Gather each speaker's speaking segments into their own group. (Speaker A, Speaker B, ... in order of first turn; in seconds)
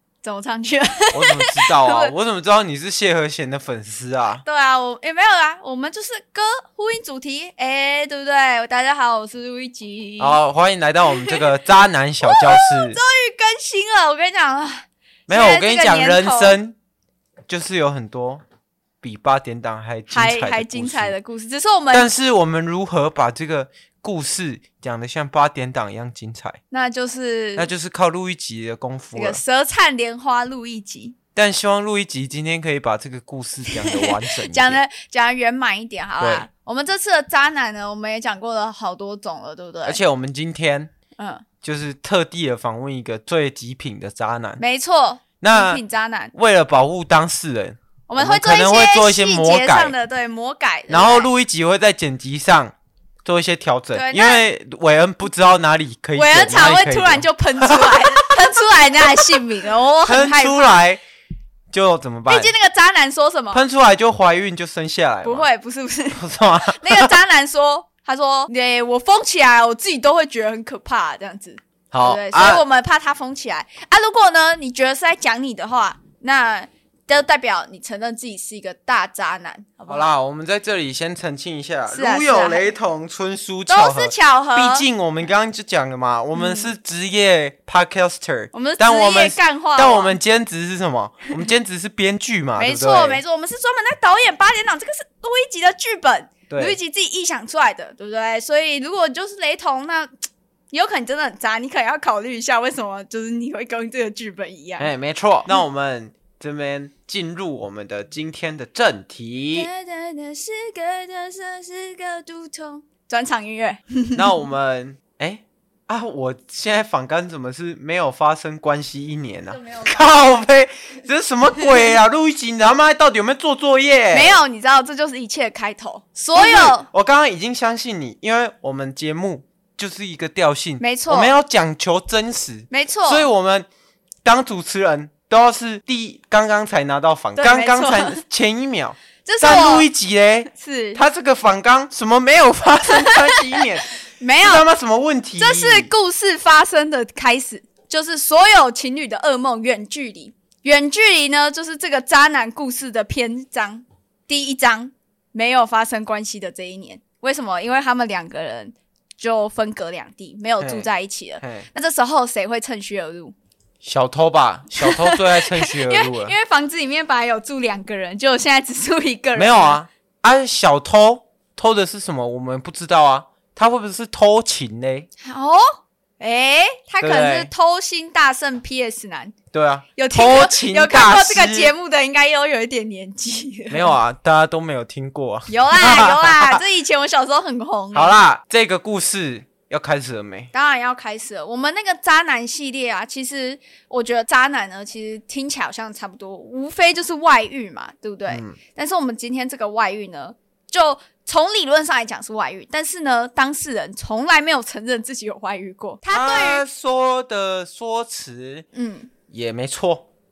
Speaker A: 0.2-2.1, 4.4-10.4, 11.1-11.5, 12.2-16.6, 20.1-22.1, 26.7-27.7, 29.1-31.1, 33.7-40.0, 41.2-41.5, 44.6-46.3, 48.1-51.3, 53.9-54.4, 56.1-60.8, 62.3-63.6, 65.2-80.1, 81.9-82.7, 83.7-84.9, 86.3-86.7, 88.5-90.2, 92.6-104.9, 109.5-114.3, 119.5-120.2, 124.1-126.9, 130.8-131.3, 132.7-133.3, 137.4-138.2, 139.2-139.9, 140.5-141.0, 143.1-143.4, 144.2-144.6, 145.4-163.3, 164.8-169.8, 175.2-179.3, 179.9-183.9, 185.5-188.2, 190.5-206.6, 208.7-209.1
Speaker B: 1.1-4.4, 10.2-13.0, 15.3-16.7, 17.5-18.4, 19.0-21.1, 21.9-26.6, 27.6-29.4, 31.3-34.8, 36.2-36.5, 39.8-40.9, 41.6-44.6, 45.4-45.8, 46.3-49.9, 50.9-52.7, 53.2-58.3, 60.0-61.0, 61.7-62.5, 63.5-65.5, 66.1-67.1, 71.9-72.6, 79.9-93.2, 96.5-96.8, 104.8-109.7, 114.1-124.4, 126.3-133.7, 134.2-145.9, 160.6-160.9, 161.4-161.7, 163.8-166.3, 169.3-175.1, 177.0-177.5, 179.5-181.7, 183.7-186.6, 187.9-190.5, 198.3-198.6, 206.1-208.7, 209.3-210.0